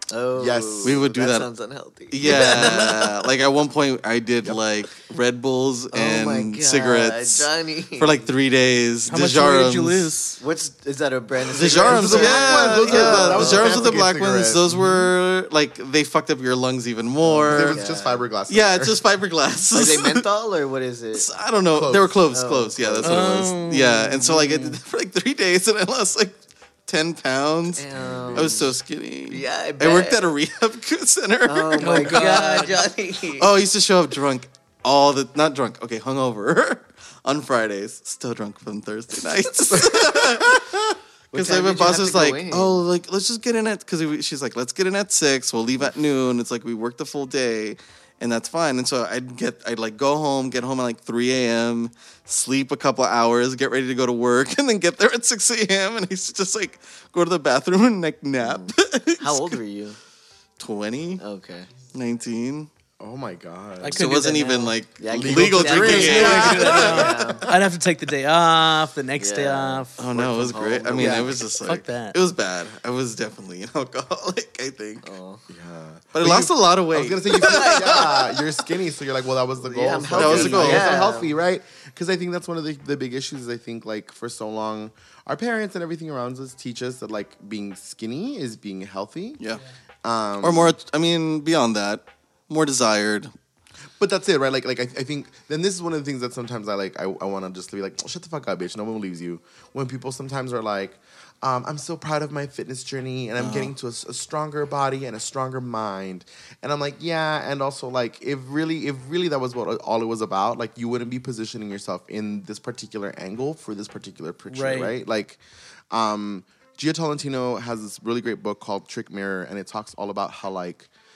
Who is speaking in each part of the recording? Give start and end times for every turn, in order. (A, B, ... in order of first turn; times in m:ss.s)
0:00.1-0:03.3 A
0:00.4-0:01.0 B
0:00.8-0:01.5 C
0:02.1-0:10.1 C
0:02.3-0:02.8 B
0:05.9-0:08.3 A
0:09.1-0:10.4 D
0:10.4-0:14.0 A
0:11.4-0:17.8 C
0:11.8-0:14.6 B
0:17.3-0:18.2 A
0:17.3-0:19.0 B
0:18.5-0:20.3 C
0:19.7-0:21.3 A
0:21.1-0:32.6 C
0:21.7-0:22.2 B
0:22.3-0:23.3 A
0:23.0-0:24.8 D
0:27.8-0:28.8 A
0:28.0-0:28.6 B
0:29.3-0:30.2 A
0:31.4-0:33.5 A
0:31.8-0:32.9 D
0:33.4-0:59.6 C
0:39.8-0:40.8 B
0:41.3-0:42.8 A
0:58.4-1:00.0 A
1:00.6-1:01.2 C
1:01.2-1:01.7 A
1:01.9-1:02.7 C
1:03.0-1:04.1 B
1:03.8-1:04.7 D
1:03.9-1:07.3 C
1:05.0-1:07.5 A
1:05.1-1:07.4 B
1:05.8-1:10.0 D
1:09.2-1:11.4 A
1:10.0-1:15.1 C
1:10.9-1:11.3 B
1:11.6-1:12.2 D
1:15.0-1:15.4 A
1:15.5-1:29.4 B
1:16.1-1:18.4 C
1:17.4-1:18.2 A
1:19.6-1:21.3 A
1:20.1-1:21.0 C
1:30.0-1:30.8 B
1:30.4-1:33.3 C
1:34.0-2:00.9 B
1:43.4-1:43.7 C
1:54.5-1:55.0 D